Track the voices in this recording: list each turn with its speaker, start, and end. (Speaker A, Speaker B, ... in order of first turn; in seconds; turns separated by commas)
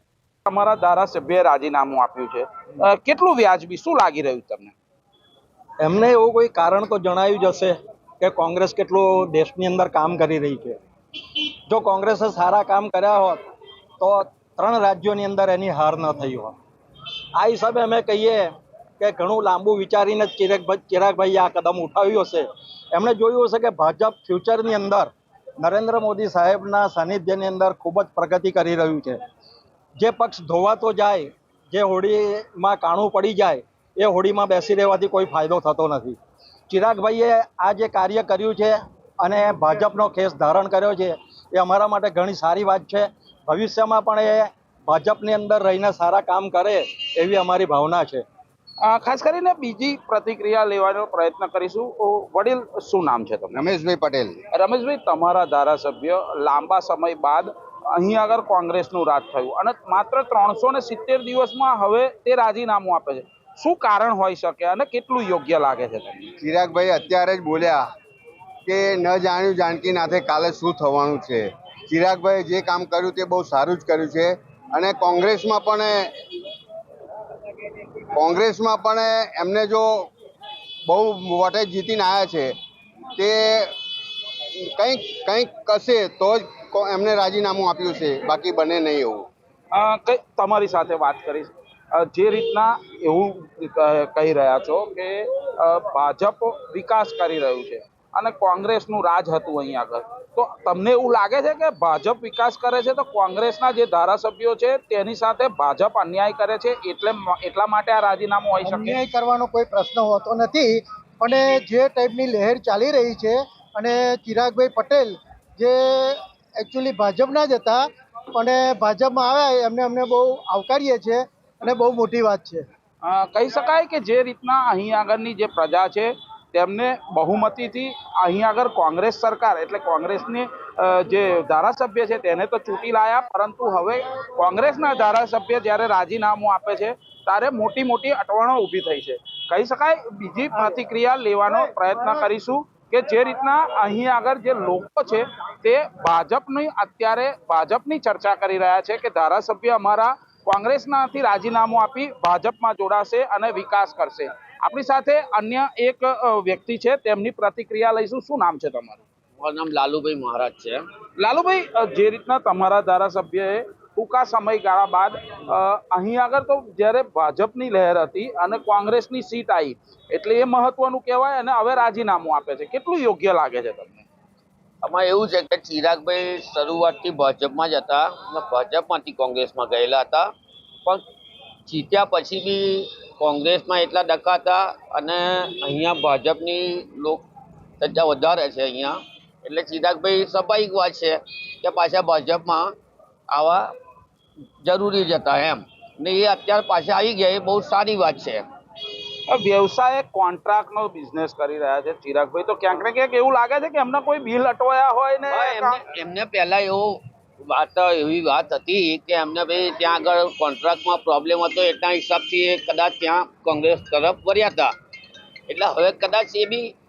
Speaker A: 0.5-4.7, Speaker B: 5.8-10.8, Speaker B: 11.7-13.4, Speaker B: 14.0-16.6, Speaker B: 17.4-29.2, Speaker B: 30.0-36.2, Speaker B: 36.7-48.2, Speaker A: 48.8-53.6, Speaker C: 53.5-54.4, Speaker A: 54.5-66.3, Speaker C: 66.4-67.8, Speaker C: 68.7-76.1, Speaker C: 78.1-80.1, Speaker C: 80.9-82.5, Speaker C: 83.2-83.7, Speaker C: 84.6-89.3, Speaker A: 89.7-109.0, Speaker D: 108.7-122.7, Speaker A: 123.0-159.0, Speaker E: 159.4-160.8, Speaker A: 161.2-174.1, Speaker E: 174.8-180.3, Speaker E: 181.7-187.2, Speaker E: 187.8-192.7, Speaker E: 193.3-193.7, Speaker E: 194.6-198.4, Speaker A: 199.3-205.8, Speaker E: 205.3-214.7, Speaker E: 215.5-216.8